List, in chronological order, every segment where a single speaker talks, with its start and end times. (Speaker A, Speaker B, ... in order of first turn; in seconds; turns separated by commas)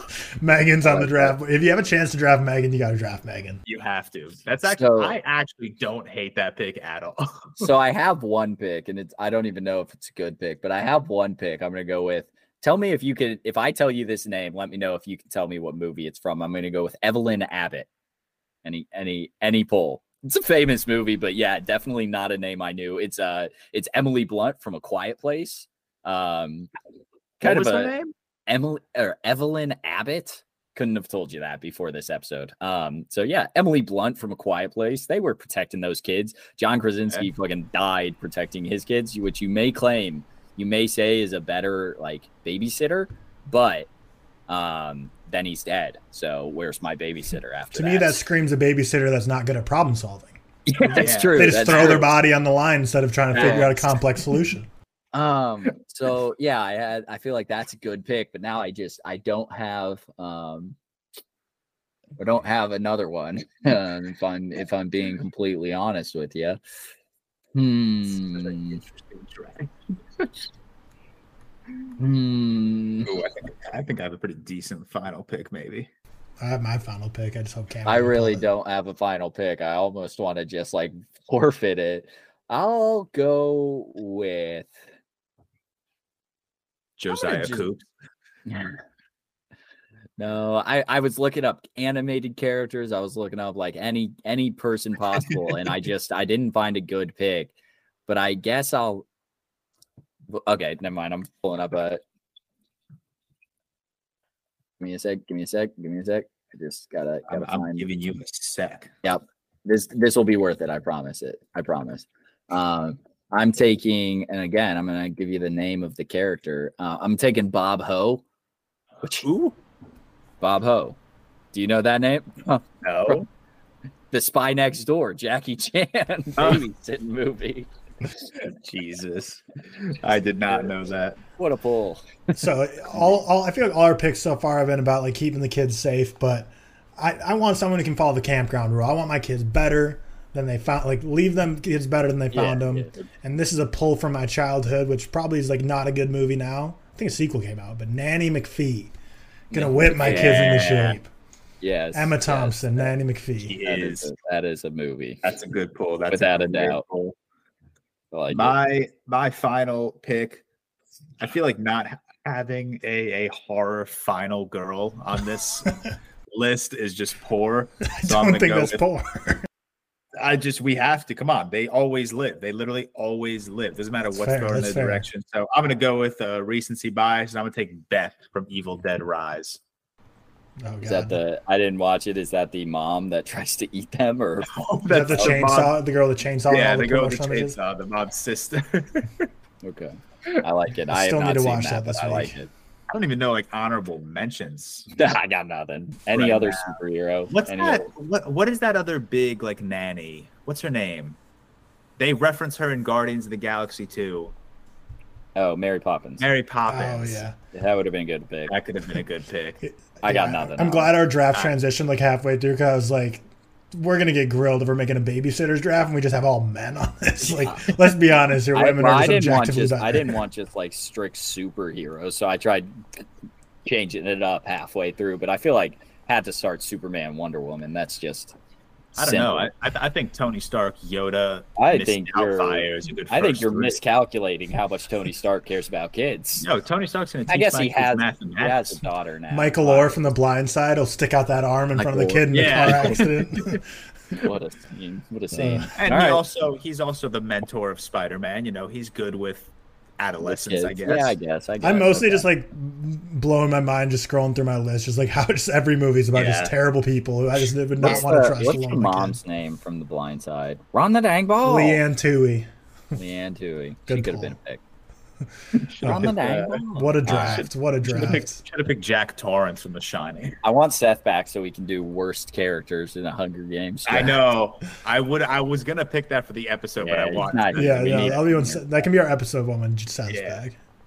Speaker A: 0.4-3.6, Speaker B: 0.8-1.4, Speaker C: 3.6-7.7, Speaker B: 4.7-5.2, Speaker B: 7.6-17.9, Speaker B: 18.6-26.7, Speaker B: 27.4-27.9, Speaker C: 27.4-28.1, Speaker B: 28.5-43.9, Speaker B: 44.5-48.2, Speaker A: 47.7-54.7, Speaker B: 50.6-52.1, Speaker C: 50.9-52.1, Speaker B: 53.3-54.0, Speaker C: 53.4-53.6, Speaker B: 55.1-60.8, Speaker B: 62.2-66.6, Speaker B: 67.5-68.8, Speaker C: 68.1-70.3, Speaker B: 72.0-73.1, Speaker C: 73.0-75.9, Speaker A: 76.4-78.4, Speaker B: 77.8-84.7, Speaker C: 87.0-87.8, Speaker B: 87.1-87.7, Speaker B: 88.5-88.8, Speaker B: 90.2-97.5, Speaker B: 98.1-99.0, Speaker B: 100.3-102.0, Speaker B: 104.8-107.8, Speaker C: 107.3-108.9, Speaker B: 109.0-118.2, Speaker C: 119.2-119.5, Speaker B: 120.4-121.0, Speaker B: 121.5-123.2, Speaker C: 122.8-123.2, Speaker B: 124.1-127.7, Speaker C: 126.4-126.6, Speaker C: 128.4-131.2, Speaker B: 131.4-132.0, Speaker A: 132.3-148.9, Speaker B: 142.3-143.0, Speaker B: 149.5-150.7, Speaker A: 149.5-151.1, Speaker C: 150.0-151.0, Speaker B: 151.6-152.9, Speaker A: 151.9-153.6, Speaker C: 153.4-154.1, Speaker B: 153.6-155.2, Speaker C: 155.2-157.1, Speaker B: 156.1-156.8, Speaker B: 158.1-158.6, Speaker C: 158.3-160.4, Speaker C: 161.2-165.7, Speaker C: 166.3-168.8, Speaker A: 167.9-169.4, Speaker C: 170.2-179.6, Speaker A: 174.1-175.0, Speaker A: 180.6-181.2, Speaker B: 180.8-184.5, Speaker C: 184.5-185.8, Speaker A: 184.9-187.6, Speaker C: 186.5-189.3, Speaker B: 189.6-192.5, Speaker A: 190.9-192.3, Speaker C: 192.9-194.9, Speaker B: 194.9-197.9, Speaker C: 196.1-196.7, Speaker C: 197.3-201.2, Speaker C: 202.0-204.3, Speaker B: 205.3-206.3, Speaker C: 206.2-207.2, Speaker A: 206.7-207.3, Speaker B: 207.5-208.5, Speaker C: 208.5-209.6, Speaker A: 209.6-220.2, Speaker B: 210.0-211.0, Speaker B: 217.2-217.8, Speaker B: 218.5-222.8, Speaker B: 223.6-228.3, Speaker B: 228.9-229.5, Speaker C: 229.0-233.8, Speaker B: 231.6-236.4, Speaker C: 236.4-238.8, Speaker B: 237.3-240.2, Speaker A: 239.3-243.6, Speaker B: 241.8-243.0, Speaker C: 242.3-243.6, Speaker B: 244.2-246.2, Speaker A: 245.3-245.7, Speaker C: 245.8-251.2, Speaker B: 250.2-252.3, Speaker A: 251.6-259.2, Speaker B: 256.1-256.5, Speaker B: 257.8-261.8, Speaker C: 257.8-258.6, Speaker A: 261.4-262.5, Speaker B: 262.9-264.6, Speaker A: 263.9-264.4, Speaker C: 265.7-270.4, Speaker A: 265.8-266.2, Speaker B: 265.8-267.5, Speaker A: 266.7-268.4, Speaker B: 270.4-274.2, Speaker C: 273.9-278.2, Speaker B: 276.8-278.9, Speaker A: 277.5-280.6, Speaker C: 280.1-280.4